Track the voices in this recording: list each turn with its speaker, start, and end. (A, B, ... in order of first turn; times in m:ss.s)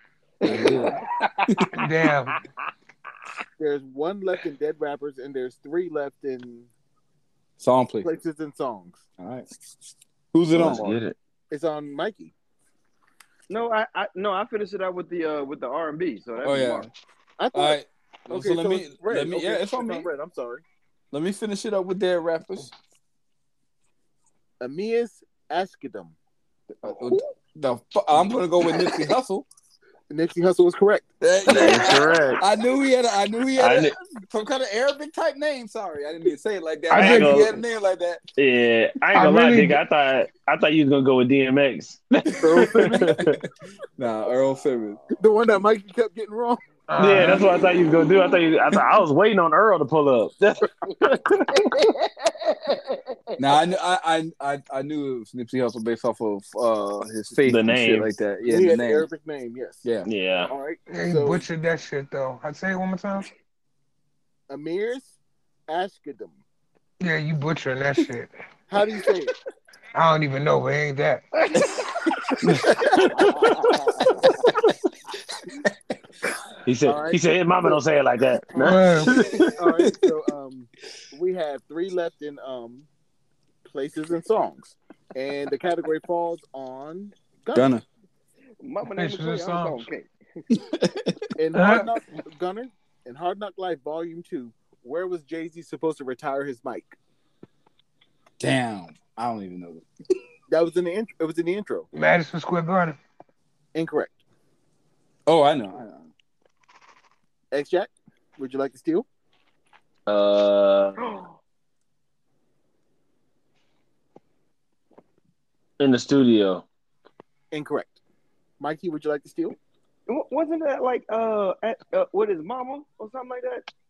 0:00.4-0:01.7 A
0:00.4-0:01.7 B
0:01.7-0:02.4 C
0:03.6-0:06.7 D
0:07.6-0:08.1 B
0:08.0-0:09.0 D
0:09.2-0:09.5 B
0:10.3-0:11.0 B
0:10.5-0:11.2 E
0:11.5-0:12.3 D
0:13.5-0:16.9 A
0:16.4-0:16.9 B
0:17.4-0:17.8 D
0:17.5-0:20.1 B
0:18.3-0:20.6 D
0:21.1-0:22.7 B
0:24.6-0:26.2 D
0:26.8-0:27.3 A
0:26.8-0:29.5 B
0:30.1-0:31.1 D
0:31.2-0:38.2 B
0:31.5-0:32.4 E
0:33.6-0:33.9 E
0:36.9-0:37.5 C
0:36.9-0:37.6 E
0:38.4-0:43.4 E
0:39.1-0:39.8 C
0:42.3-0:43.4 B
0:42.4-0:43.2 D
0:44.0-0:45.0 B
0:45.1-0:46.6 D
0:46.9-0:47.5 C
0:47.0-0:50.4 E
0:50.4-0:53.4 A
0:53.4-0:59.1 B
0:57.4-0:58.1 E
0:58.5-0:59.8 D
0:59.8-1:00.1 B
1:00.0-1:00.5 E
1:00.5-1:01.4 D
1:00.9-1:03.3 C
1:04.5-1:05.2 D
1:05.7-1:06.4 D
1:07.0-1:08.3 C
1:08.7-1:09.3 D
1:10.0-1:11.2 C
1:11.5-1:11.8 A
1:12.4-1:13.4 E
1:12.8-1:14.6 B
1:13.2-1:14.4 A
1:16.6-1:19.5 E
1:16.8-1:17.7 D
1:18.6-1:19.3 C
1:19.4-1:22.9 D
1:19.8-1:20.1 B
1:23.6-1:27.7 D
1:27.5-1:27.8 B
1:28.6-1:30.1 A
1:28.9-1:29.9 C
1:30.5-1:31.3 B
1:31.4-1:37.0 D
1:31.5-1:31.9 C
1:38.4-1:39.8 B
1:40.5-1:41.9 D
1:41.9-1:43.0 C
1:43.7-1:44.1 D
1:45.3-1:46.1 B
1:47.5-1:49.1 D
1:50.1-1:51.0 E
1:51.0-1:51.4 A
1:55.8-1:56.6 E
1:57.5-1:58.0 D
1:58.6-1:59.6 D
2:00.1-2:03.7 A